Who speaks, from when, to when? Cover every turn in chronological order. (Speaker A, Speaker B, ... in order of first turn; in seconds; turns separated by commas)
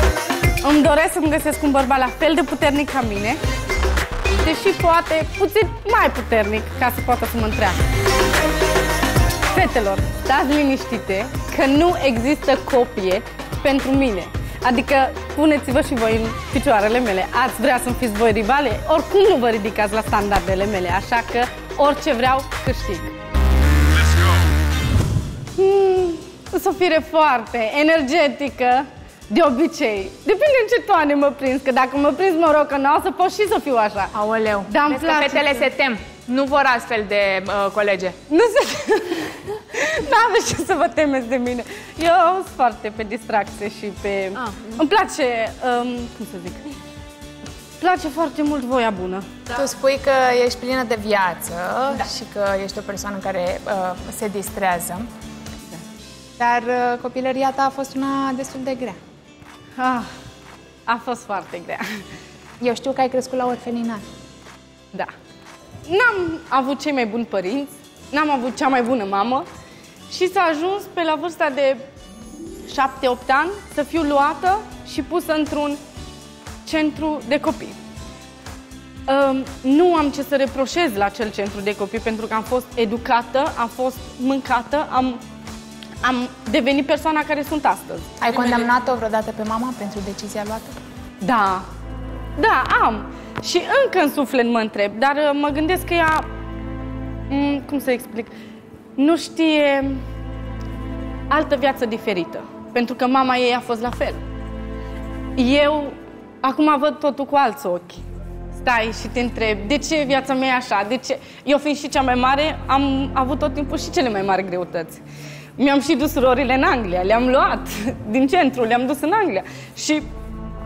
Speaker A: 0.6-3.4, Speaker A: 4.4-7.8, Speaker A: 9.5-23.1, Speaker A: 25.6-34.1, Speaker B: 34.1-38.2, Speaker A: 34.7-35.7, Speaker A: 38.3-46.8, Speaker B: 44.5-44.8, Speaker A: 47.8-49.4, Speaker B: 49.5-55.0, Speaker B: 56.4-59.0, Speaker A: 59.8-60.1, Speaker A: 60.9-62.0, Speaker B: 62.6-64.0, Speaker A: 65.8-69.5, Speaker A: 70.1-71.8, Speaker A: 72.7-75.8, Speaker A: 76.6-77.8, Speaker A: 79.1-85.2, Speaker A: 86.0-88.2, Speaker B: 88.2-90.8, Speaker A: 91.2-91.7, Speaker A: 92.4-96.3, Speaker A: 97.3-98.3, Speaker A: 99.0-100.0, Speaker A: 101.3-104.2, Speaker A: 105.3-115.0, Speaker A: 115.6-120.1